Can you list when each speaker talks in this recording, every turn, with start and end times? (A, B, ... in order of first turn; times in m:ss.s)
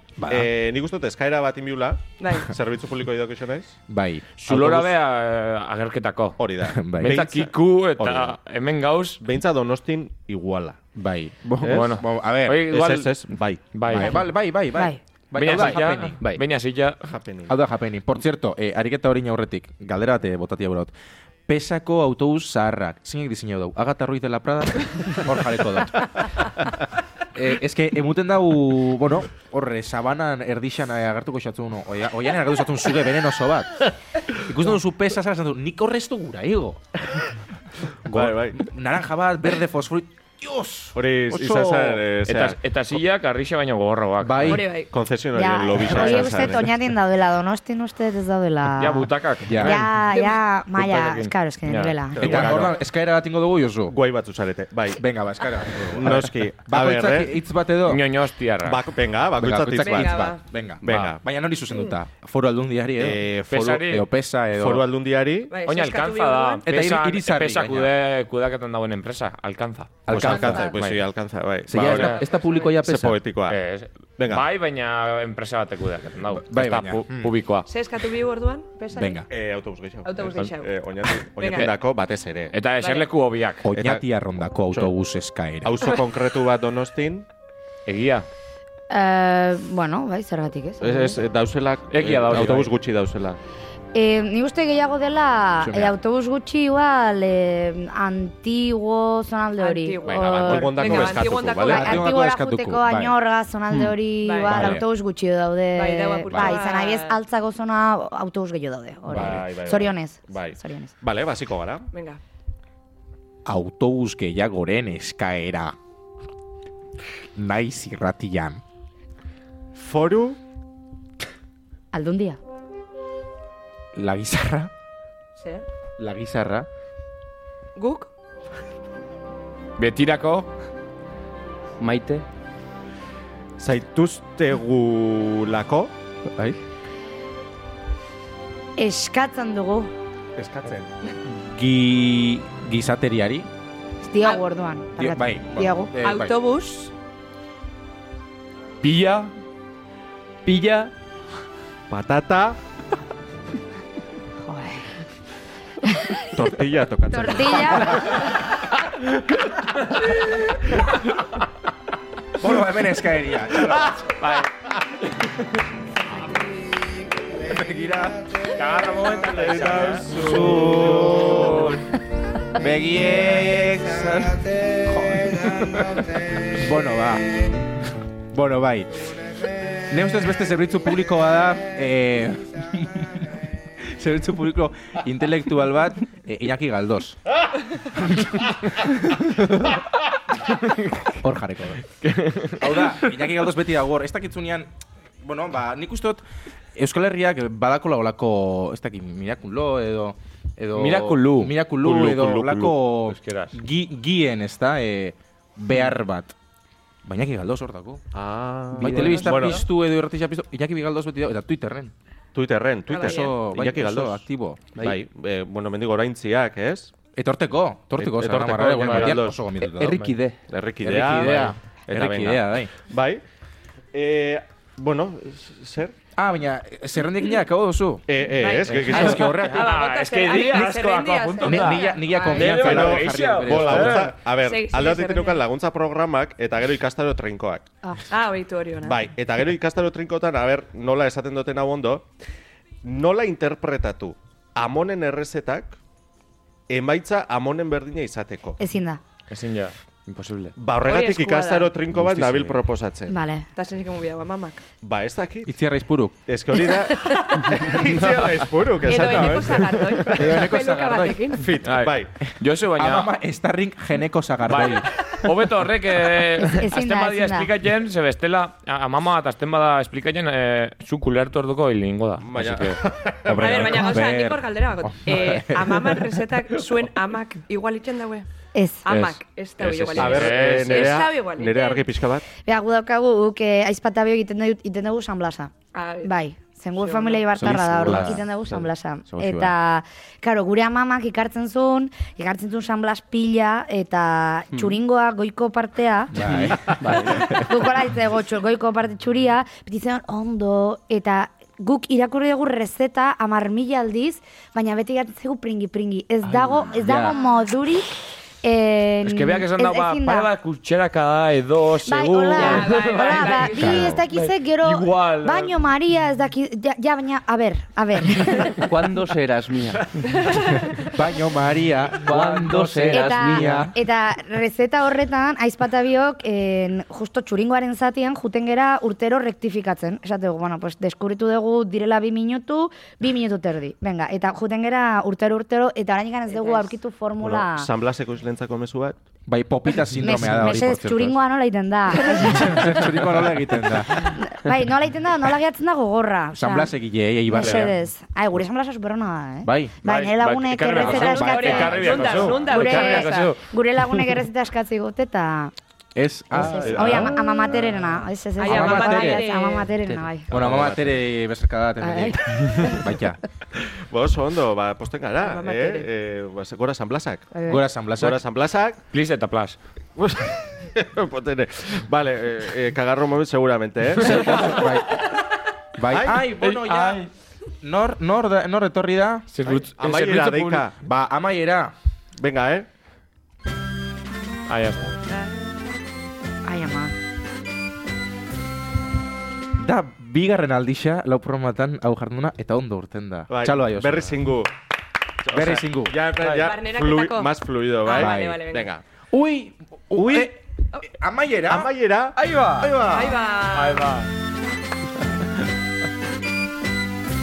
0:00.2-0:00.5 A
0:00.3-0:03.8 B
0:02.2-0:02.5 C
0:03.9-0:04.9 A
0:04.4-0:06.4 D
0:06.4-0:08.3 B
0:06.7-0:07.2 A
0:06.9-0:09.2 D
0:09.2-0:10.8 B
0:10.9-0:12.7 A
0:11.6-0:11.9 B
0:11.6-0:14.2 D
0:12.7-0:14.0 B
0:13.9-0:16.2 A
0:15.3-0:17.0 D
0:17.0-0:17.5 B
0:17.5-0:20.9 A
0:21.5-0:26.1 A
0:27.3-0:36.8 A
0:38.0-0:42.0 A
0:38.1-0:38.6 B
0:40.9-0:42.6 B
0:42.2-0:44.6 D
0:44.2-0:44.6 A
0:44.5-0:44.9 C
0:44.9-0:46.6 B
0:45.3-0:52.3 E
0:45.9-0:46.5 A
0:48.8-0:49.9 D
0:49.4-0:49.8 A
0:50.7-0:52.7 D
0:52.2-0:52.8 B
0:52.2-0:54.0 A
0:53.9-0:55.0 B
0:55.0-0:58.0 A
0:55.9-0:57.3 B
0:57.8-0:58.8 D
0:58.6-1:00.3 B
0:59.4-1:04.9 A
0:59.7-1:00.4 C
1:00.8-1:01.2 B
1:00.9-1:01.1 D
1:03.0-1:03.8 B
1:03.5-1:04.1 D
1:04.5-1:05.6 B
1:05.5-1:06.6 C
1:05.6-1:11.0 D
1:06.6-1:07.9 A
1:10.1-1:10.8 A
1:10.1-1:13.6 B
1:10.2-1:10.7 C
1:11.7-1:13.2 A
1:11.7-1:12.2 D
1:12.4-1:12.8 C
1:13.5-1:17.7 D
1:14.2-1:14.4 B
1:16.3-1:17.3 A
1:17.7-1:19.2 C
1:18.9-1:19.2 A
1:19.3-1:22.6 B
1:20.0-1:20.8 C
1:21.4-1:21.7 C
1:22.5-1:23.8 D
1:22.8-1:23.1 C
1:23.6-1:25.9 A
1:25.6-1:27.3 B
1:27.8-1:28.3 D
1:28.9-1:31.2 E
1:30.8-1:33.4 B
1:31.9-1:32.7 D
1:33.9-1:41.1 E
1:35.6-1:36.0 A
1:39.6-1:42.0 C
1:40.1-1:42.0 B
1:41.6-1:50.9 E
1:41.7-1:43.2 A
1:44.2-1:44.7 C
1:44.5-1:44.8 A
1:45.7-1:47.2 C
1:49.1-1:51.9 B
1:49.1-1:49.4 A
1:51.9-1:52.2 C
1:53.4-1:55.8 A
1:57.3-1:58.6 A
1:59.7-2:00.4 B
2:01.9-2:02.4 E
2:03.9-2:04.7 A
2:05.4-2:05.6 C
2:06.0-2:06.7 A
2:07.8-2:08.1 C
2:09.8-2:10.5 D
2:11.8-2:12.2 F
2:13.6-2:15.9 B
2:18.8-2:19.9 E
2:20.4-2:20.9 B
2:21.5-2:23.5 A
2:24.0-2:25.9 E
2:25.0-2:26.4 A
2:26.0-2:26.9 C
2:28.8-2:29.3 D
2:30.4-2:30.9 F
2:31.9-2:32.6 B
2:34.4-2:34.9 E
2:35.8-2:36.2 E
2:36.3-2:38.1 B
2:37.1-2:38.1 E
2:42.4-2:44.0 A
2:44.2-2:44.7 D
2:46.1-2:46.4 D
2:47.4-2:48.3 A
2:48.5-2:51.8 D
2:49.3-2:51.7 B
2:50.1-2:51.8 A
2:52.6-2:55.8 A
2:56.4-2:57.5 A
2:58.3-2:59.1 A
2:59.9-3:07.2 A
3:07.9-3:08.5 A
3:10.5-3:10.8 D
3:11.2-3:11.8 A
3:12.0-3:12.9 D
3:12.6-3:16.2 A
3:16.7-3:26.3 A
3:20.7-3:23.6 D
3:27.0-3:28.0 A
3:28.1-3:29.6 B
3:28.7-3:29.5 F
3:28.8-3:31.9 A
3:32.3-3:34.2 B
3:32.9-3:33.4 C
3:32.9-3:34.7 A
3:34.8-3:36.9 B
3:37.2-3:40.1 A
3:38.0-3:39.4 B
3:38.8-3:39.2 D
3:39.6-3:40.4 F
3:40.5-3:43.2 B
3:40.8-3:42.7 A
3:43.9-3:45.9 B
3:46.2-3:48.0 A
3:48.1-3:49.3 B
3:48.3-3:52.6 C
3:48.6-3:49.7 A
3:48.9-3:54.2 D
3:51.4-3:54.1 A
3:52.5-3:57.7 B
3:54.3-3:55.4 C
3:58.1-3:59.0 C
3:58.8-4:02.1 B
4:02.8-4:05.8 B
4:06.7-4:08.6 B
4:08.6-4:09.0 E
4:09.3-4:10.5 D
4:10.6-4:13.1 B
4:10.8-4:11.8 C
4:12.0-4:12.5 D
4:13.1-4:13.5 E
4:13.5-4:14.6 C
4:14.8-4:15.5 B
4:15.4-4:16.2 A
4:16.2-4:20.5 B
4:17.8-4:19.4 D
4:18.8-4:21.5 C
4:20.1-4:21.2 A
4:21.3-4:22.1 B
4:21.6-4:23.1 D
4:22.3-4:24.9 A
4:24.4-4:32.8 D
4:26.5-4:27.5 E
4:32.2-4:33.7 B
4:33.2-4:36.0 A
4:33.4-4:38.2 C
4:33.4-4:33.7 D
4:38.5-4:38.9 E
4:38.8-4:41.9 C
4:38.9-4:39.2 D
4:39.7-4:41.0 D
4:39.9-4:42.2 B
4:42.4-4:56.1 E
4:45.7-4:46.1 C
4:46.8-4:47.4 C
4:47.4-4:49.5 A
4:54.5-4:54.8 F
4:56.1-4:57.5 A
4:56.2-4:57.3 F
4:57.4-5:07.9 E
5:06.6-5:07.2 A
5:08.4-5:10.3 E
5:09.0-5:15.6 D
5:11.8-5:18.5 E
5:12.3-5:13.9 C
5:13.6-5:14.0 A
5:18.6-5:19.9 F
5:20.2-5:20.8 C
5:20.8-5:23.7 A
5:22.0-5:23.7 F
5:22.9-5:37.7 E
5:36.3-5:36.7 C
5:37.2-5:39.0 B
5:39.2-5:41.2 A
5:40.0-5:42.6 E
5:42.1-5:44.1 A
5:43.9-5:46.7 E
5:46.4-5:47.7 A
5:47.3-5:51.8 E
5:49.4-5:49.7 A
5:49.8-5:53.4 D
5:50.8-5:53.3 C
5:51.0-5:52.4 A
5:52.5-5:55.5 E
5:55.9-5:57.1 A
5:56.3-6:00.3 E
5:56.5-5:57.2 B
5:58.4-5:59.7 C
5:58.4-5:59.2 A
5:59.9-6:00.7 F
6:00.3-6:03.2 A
6:00.3-6:00.9 B
6:01.8-6:02.8 E
6:03.6-6:07.3 B
6:05.2-6:05.9 C
6:07.3-6:07.6 E
6:07.5-6:08.2 A
6:07.9-6:08.8 B
6:08.9-6:09.6 D
6:10.0-6:14.7 B
6:14.0-6:15.0 A
6:15.8-6:17.1 A
6:15.9-6:16.7 B
6:16.4-6:17.0 D
6:17.6-6:19.3 A
6:19.3-6:20.7 D
6:19.4-6:20.7 B
6:20.7-6:21.7 A
6:22.2-6:22.7 B
6:24.5-6:25.0 D
6:26.4-6:26.9 E
6:29.6-6:34.2 A
6:33.3-6:34.5 B
6:35.2-6:38.8 B
6:35.3-6:36.0 A
6:36.2-6:36.5 D
6:36.4-6:38.7 C
6:37.9-6:38.4 A
6:39.1-6:41.7 A
6:39.9-6:40.3 B
6:41.5-6:42.2 B
6:42.2-6:42.7 F
6:42.5-6:43.2 A
6:42.8-6:44.0 C
6:43.5-6:44.1 D